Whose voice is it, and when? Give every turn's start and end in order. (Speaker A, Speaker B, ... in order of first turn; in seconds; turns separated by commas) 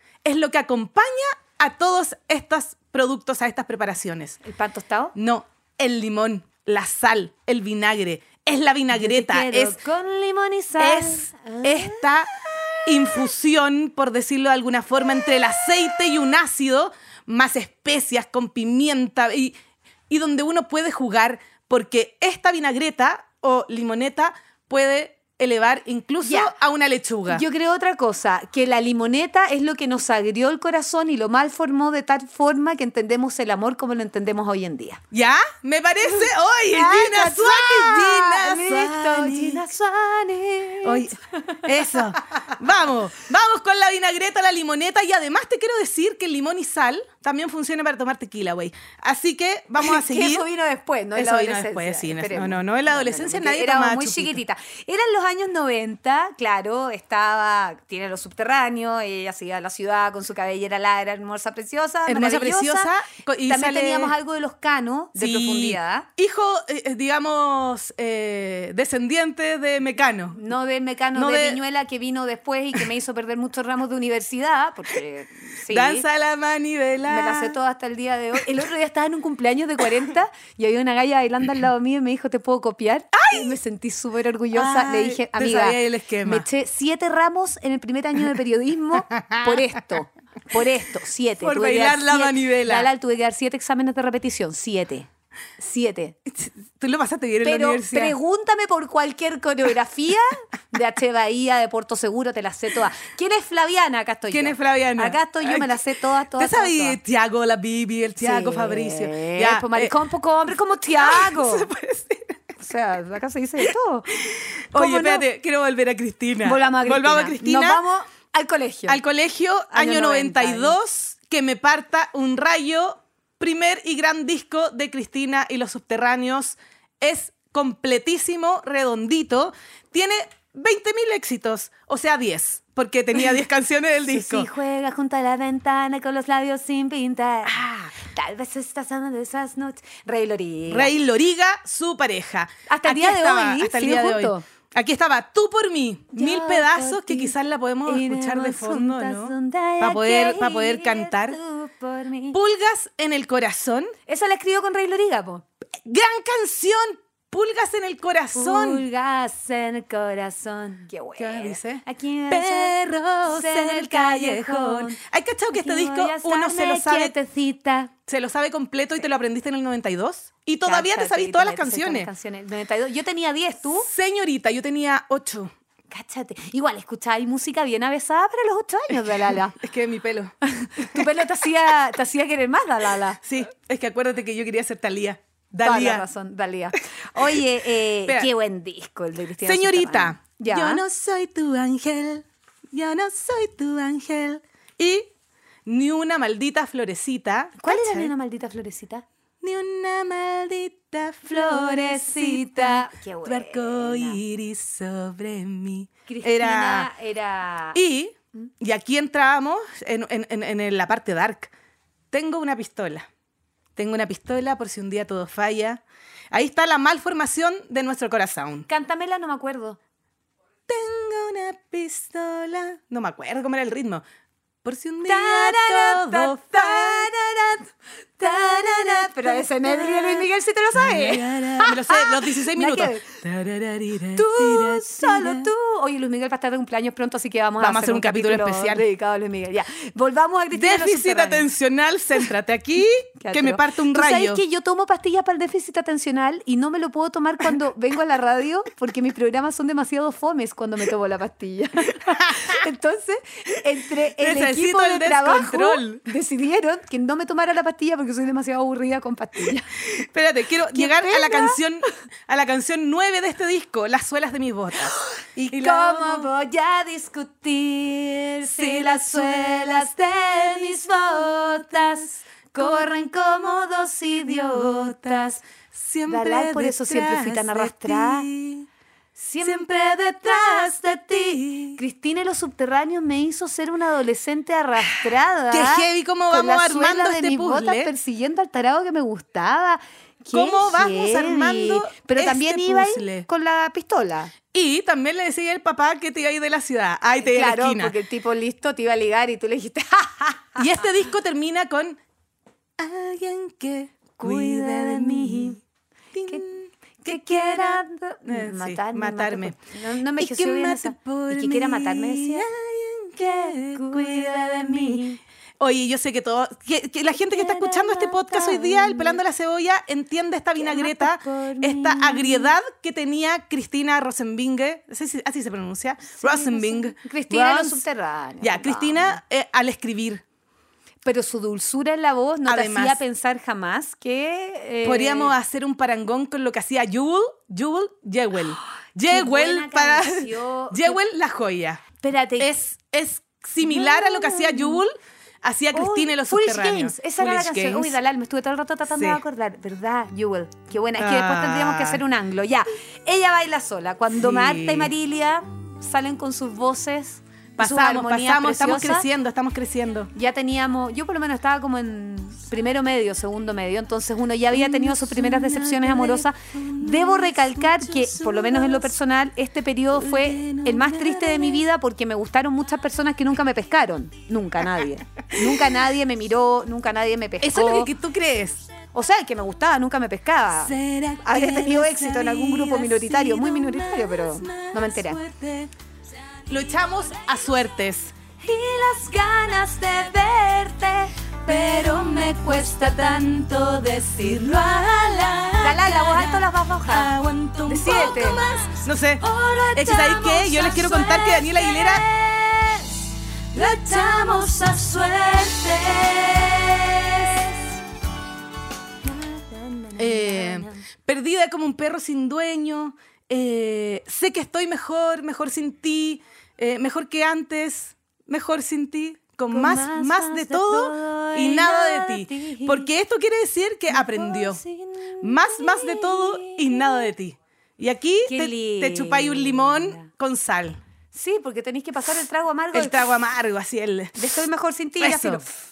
Speaker A: 0.2-4.4, Speaker B: 4.4-5.1, Speaker A: 5.1-9.8, Speaker B: 8.9-13.3, Speaker A: 10.8-12.3, Speaker A: 12.8-19.5, Speaker A: 20.1-27.4, Speaker B: 26.2-26.5, Speaker B: 27.3-35.0, Speaker A: 35.1-39.6, Speaker B: 36.7-42.5, Speaker A: 40.8-50.5, Speaker B: 49.8-62.9, Speaker A: 51.1-54.4, Speaker A: 62.0-64.1, Speaker B: 63.5-66.1, Speaker A: 65.2-70.4, Speaker B: 70.3-76.0, Speaker A: 71.1-71.6, Speaker A: 75.7-77.5, Speaker B: 77.0-96.2, Speaker A: 83.1-83.6, Speaker A: 84.5-86.5, Speaker A: 89.2-89.6, Speaker A: 91.4-92.9, Speaker A: 96.3-98.2, Speaker B: 97.4-107.0, Speaker A: 104.3-105.7, Speaker A: 106.4-109.9, Speaker B: 108.2-111.7, Speaker A: 111.0-112.4, Speaker B: 112.6-114.1, Speaker A: 114.1-117.8, Speaker B: 114.7-115.2, Speaker B: 116.4-119.0, Speaker A: 118.9-134.5, Speaker B: 119.7-120.8, Speaker B: 134.1-140.9, Speaker A: 137.4-137.8, Speaker A: 140.7-151.4, Speaker B: 142.7-144.4, Speaker B: 146.1-147.3, Speaker B: 147.8-152.4, Speaker A: 152.3-153.9, Speaker B: 154.1-155.4, Speaker A: 155.8-158.8, Speaker B: 158.3-165.0, Speaker A: 161.2-167.1, Speaker B: 165.5-167.9, Speaker A: 168.1-172.1, Speaker B: 170.6-173.9, Speaker A: 173.8-175.5, Speaker B: 175.9-179.6, Speaker A: 179.5-181.1, Speaker B: 180.4-183.2, Speaker A: 183.2-186.0, Speaker B: 185.6-190.8, Speaker A: 189.4-195.1, Speaker A: 195.7-198.1, Speaker B: 197.6-199.0, Speaker A: 199.4-206.9, Speaker B: 201.2-204.2, Speaker B: 206.1-207.8, Speaker A: 207.7-211.5, Speaker A: 212.1-213.1, Speaker A: 213.8-218.7, Speaker B: 218.7-219.8, Speaker A: 220.7-224.0, Speaker A: 224.6-227.1, Speaker B: 225.0-233.2, Speaker A: 228.2-235.5, Speaker B: 234.1-241.5, Speaker A: 237.6-238.8, Speaker A: 240.5-244.4, Speaker B: 243.2-259.7, Speaker A: 252.1-252.6, Speaker A: 254.2-256.0, Speaker A: 259.8-266.3, Speaker B: 260.7-261.6, Speaker B: 264.9-275.4, Speaker A: 268.4-272.0, Speaker A: 274.6-275.0, Speaker A: 275.7-278.7, Speaker B: 276.1-278.3, Speaker B: 279.1-294.3, Speaker A: 279.4-281.8, Speaker A: 285.5-287.9, Speaker A: 290.3-293.3, Speaker A: 294.5-297.9, Speaker B: 297.2-300.7, Speaker A: 300.6-302.0, Speaker A: 302.8-305.6, Speaker B: 304.2-305.6, Speaker A: 306.1-309.6, Speaker B: 307.0-312.5, Speaker A: 310.2-315.0, Speaker B: 313.2-315.2, Speaker A: 315.6-327.8, Speaker B: 317.1-319.2, Speaker B: 320.6-322.5, Speaker B: 326.1-329.2, Speaker A: 328.4-330.2, Speaker B: 331.0-335.3, Speaker A: 332.4-333.0, Speaker A: 334.8-341.8, Speaker B: 338.6-341.0, Speaker B: 342.0-342.6, Speaker A: 342.4-348.0, Speaker B: 343.6-344.8, Speaker B: 345.7-359.1, Speaker A: 348.9-349.2, Speaker A: 351.0-352.0, Speaker A: 354.1-354.9, Speaker A: 357.6-360.1, Speaker B: 360.1-377.9, Speaker A: 364.5-368.9, Speaker A: 369.9-371.6, Speaker A: 377.4-378.6, Speaker B: 378.9-385.2, Speaker A: 380.6-385.7, Speaker A: 386.5-388.1, Speaker B: 388.4-393.1, Speaker A: 391.4-402.0, Speaker B: 395.6-397.1, Speaker B: 397.6-398.4, Speaker B: 399.2-403.0, Speaker B: 403.5-406.1, Speaker A: 403.7-407.4, Speaker B: 407.0-407.6, Speaker B: 409.0-410.9, Speaker A: 410.0-424.6, Speaker B: 419.5-422.9, Speaker B: 423.9-427.1, Speaker A: 425.2-430.8, Speaker B: 428.2-430.1, Speaker B: 431.1-433.1, Speaker A: 432.7-434.2, Speaker B: 434.1-435.5, Speaker A: 435.0-435.4